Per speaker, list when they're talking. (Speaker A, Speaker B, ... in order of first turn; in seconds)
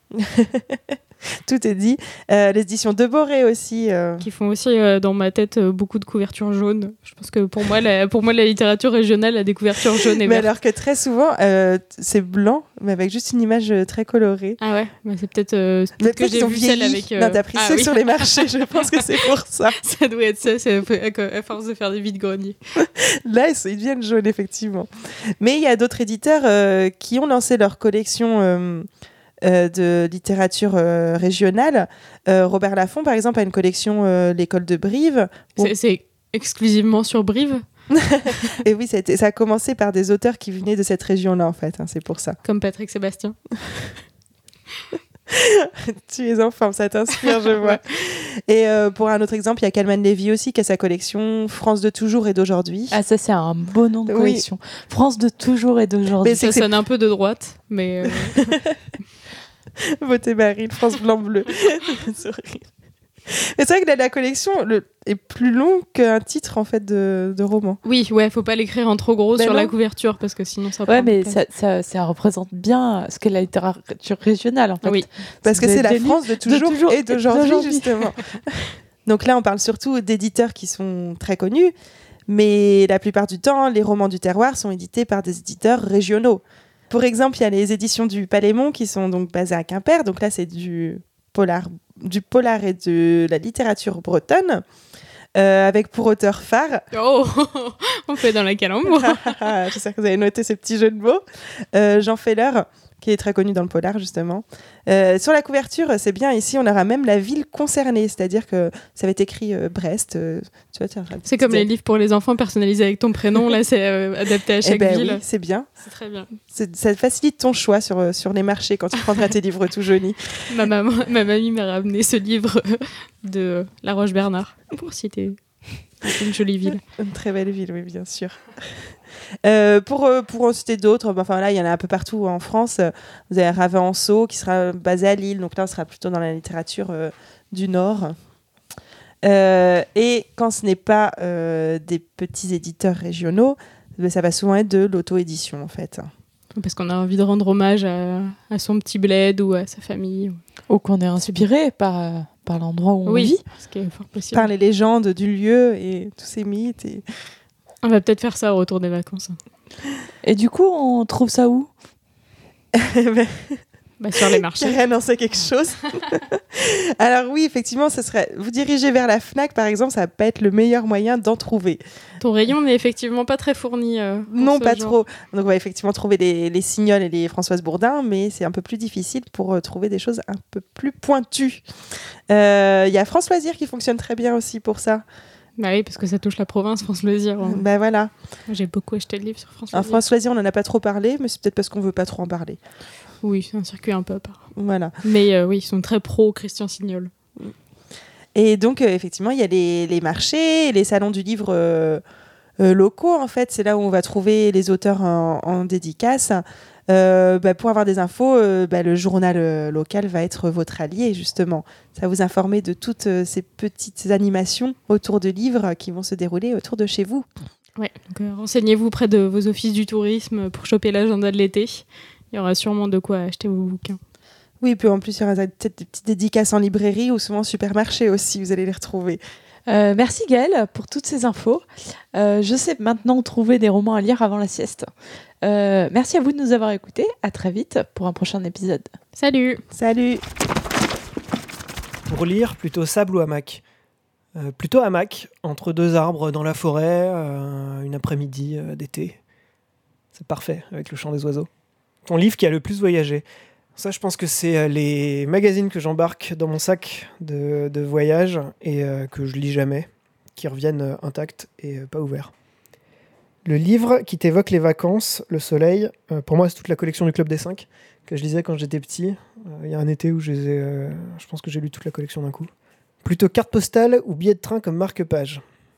Speaker A: 0.2-0.8, 1.4-4.3, 10.2-14.6, 16.0-19.8, 22.8-24.9, 25.4-28.9, 29.4-35.7, 38.1-42.4, 45.3-53.0, 54.1-54.5, 56.2-56.7, 58.4-58.7, 60.0-62.6, 63.3-67.8, 75.4-81.7, 82.3-94.6, 95.3-96.8, 98.9-101.2, 101.7-111.7, 114.6-115.7, 116.4-120.4, 127.0-128.7, 129.4-138.1, 139.2-146.1, 154.3-157.0, 162.8-163.6, 164.3-171.8, 174.3-181.6, 182.3-185.0, 187.4-188.1, 189.7-192.6, 194.5-194.9, 198.3-202.0, 202.6-217.2, 224.6-229.2, 239.7-240.2
Speaker B: 4.2-10.5, 14.6-19.1, 19.7-22.6, 35.6-37.6, 42.4-43.9, 47.5-47.8, 56.4-58.5, 67.8-71.4, 96.9-99.5, 111.2-115.2, 115.8-116.3, 120.5-126.8, 146.5-150.4, 153.1-154.5, 157.8-159.4, 164.0-164.8, 172.2-175.0, 185.6-187.6, 188.5-190.0, 193.2-194.4, 195.0-197.1, 217.8-224.0, 239.1-239.6
Speaker C: 52.9-56.5, 69.3-69.7, 70.9-78.1, 150.7-153.4, 160.2-161.7, 229.7-234.9, 235.4-238.9
Speaker D: 242.1-243.6, 244.3-249.2, 250.1-251.5, 252.0-253.2, 253.8-262.3, 263.4-272.5, 273.0-275.4